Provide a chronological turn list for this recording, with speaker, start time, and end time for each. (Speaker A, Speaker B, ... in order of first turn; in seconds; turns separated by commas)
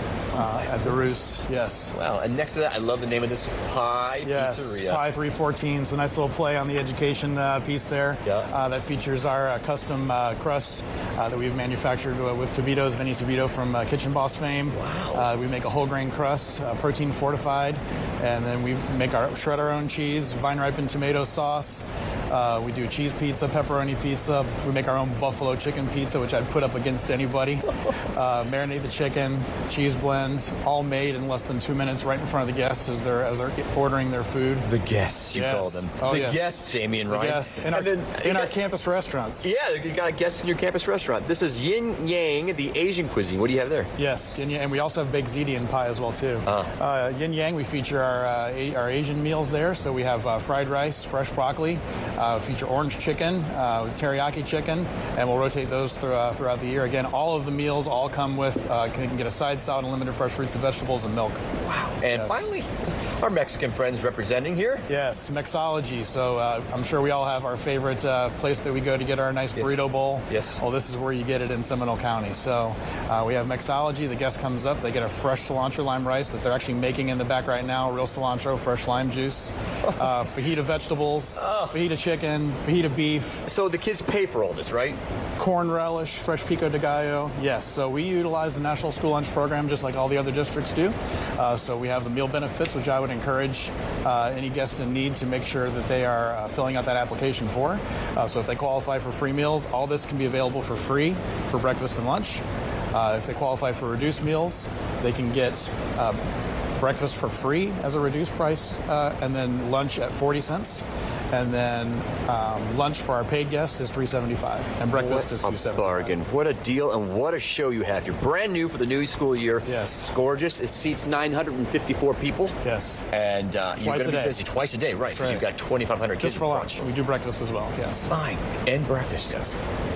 Speaker A: 0.3-1.9, Speaker B: 1.9-5.0, Speaker A: 4.2-34.7, Speaker B: 14.7-15.3, Speaker B: 34.6-38.5, Speaker A: 35.3-39.5, Speaker B: 39.4-43.9, Speaker A: 44.0-61.5, Speaker B: 46.5-46.7, Speaker B: 61.6-64.9, Speaker A: 62.1-62.4, Speaker A: 64.9-83.5, Speaker B: 69.5-70.6, Speaker B: 81.4-81.8, Speaker B: 83.5-85.0, Speaker A: 85.4-106.2, Speaker A: 106.8-116.2, Speaker B: 114.9-122.5, Speaker A: 119.6-120.1, Speaker A: 122.6-123.0, Speaker B: 123.1-126.9, Speaker A: 123.8-124.4, Speaker A: 125.1-125.5, Speaker A: 126.2-128.1, Speaker B: 128.1-129.4, Speaker A: 129.3-129.6